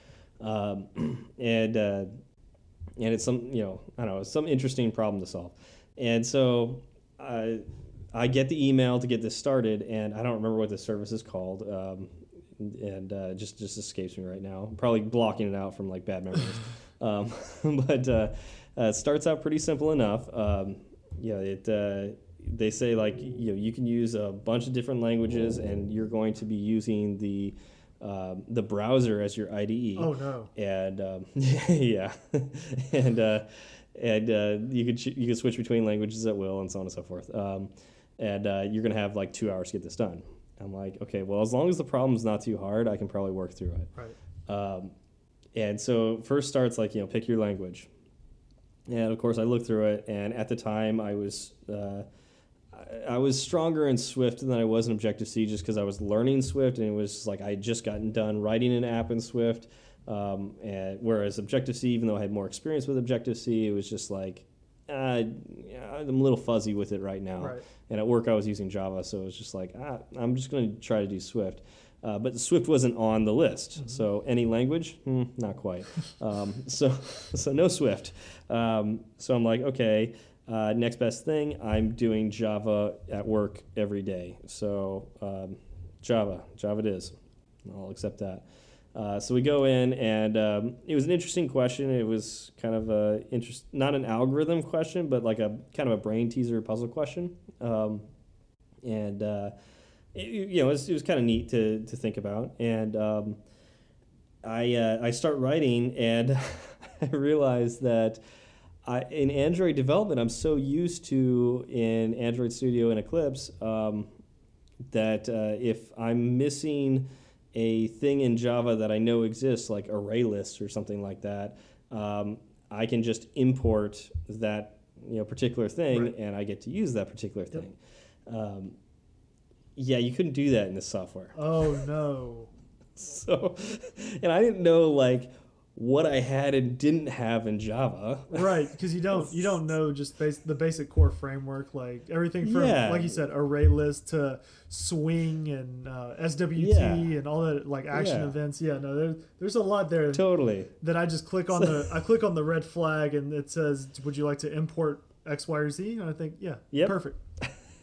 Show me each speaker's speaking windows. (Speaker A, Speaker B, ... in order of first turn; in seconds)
Speaker A: 0.4-2.2, 3.0-43.9, 44.5-44.9, 45.5-47.9, 48.9-52.1, 52.7-98.1, 98.8-99.5, 100.1-103.4, 104.4-108.2, 108.8-114.1, 114.9-128.8, 129.8-131.3, 133.0-138.5, 139.1-139.5, 142.4-143.2, 146.6-147.1, 147.9-148.3, 150.1-150.7, 151.6-151.8, 156.7-157.5
Speaker B: 30.0-30.5, 131.3-132.5, 138.3-150.2, 150.8-157.2